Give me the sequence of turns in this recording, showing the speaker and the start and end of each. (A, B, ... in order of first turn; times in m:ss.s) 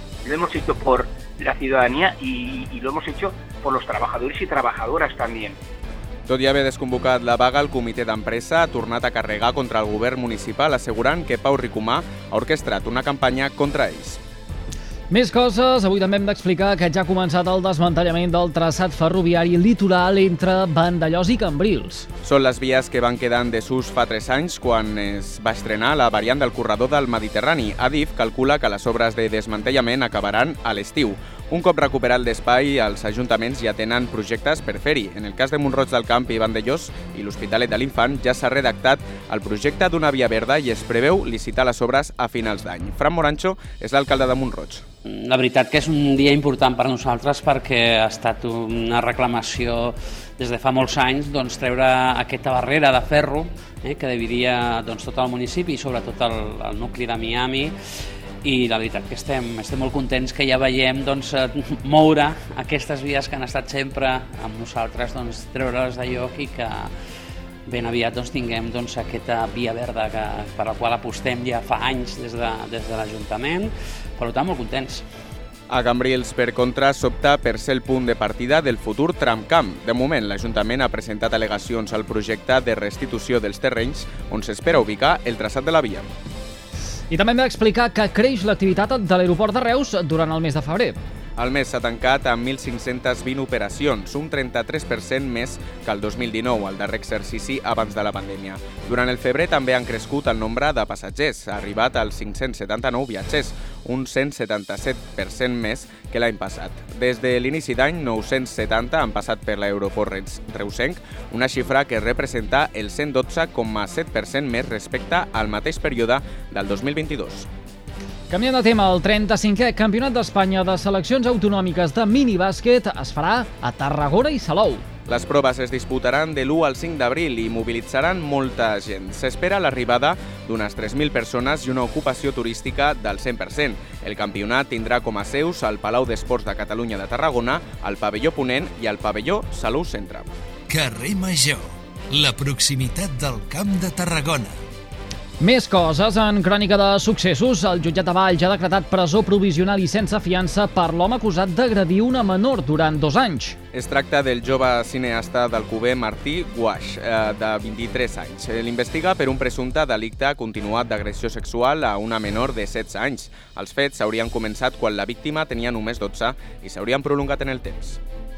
0:00.2-0:05.6 A
0:06.3-0:14.2 B
0:15.1-0:22.1 C
0:22.2-0:44.8 B
0:45.1-0:57.8 D
0:58.4-1:06.9 D
1:07.7-1:15.1 D
1:15.7-1:26.1 B
1:27.1-1:31.0 C
1:31.4-1:57.5 B
1:58.3-2:04.8 C
2:05.1-2:20.3 B
2:20.7-2:24.6 E
2:25.4-2:33.6 C
2:33.7-2:48.0 B